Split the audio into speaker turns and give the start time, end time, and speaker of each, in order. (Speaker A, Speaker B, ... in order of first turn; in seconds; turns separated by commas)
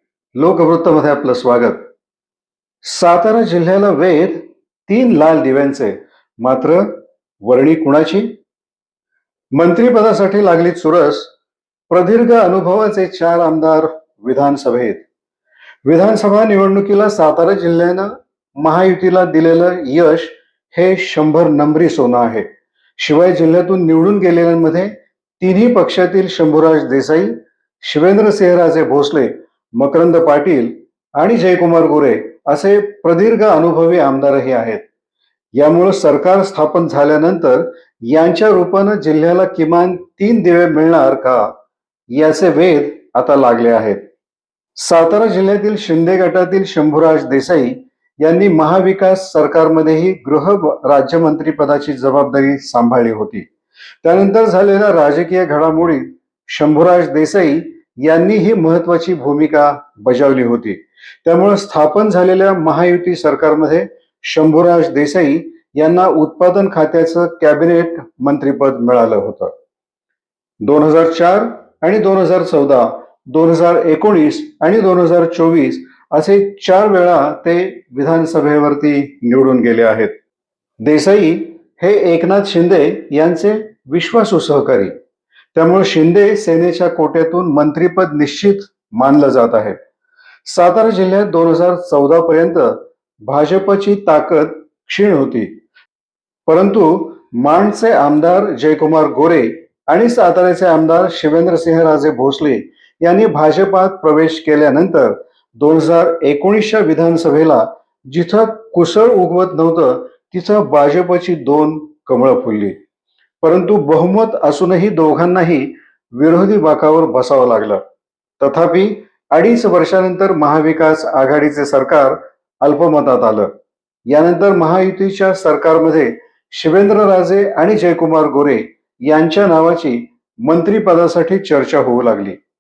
Speaker A: 0.4-1.9, Speaker A: 2.9-8.3, Speaker A: 9.6-11.3, Speaker A: 11.9-15.1, Speaker A: 15.9-22.5, Speaker A: 23.0-34.8, Speaker A: 35.6-41.5, Speaker A: 42.1-44.0, Speaker A: 44.8-53.5, Speaker A: 54.0-69.5, Speaker A: 70.6-80.1, Speaker A: 80.8-84.9, Speaker A: 85.5-89.8, Speaker A: 90.5-95.5, Speaker A: 96.5-112.8, Speaker A: 113.4-117.8, Speaker A: 118.4-123.5, Speaker A: 124.1-132.4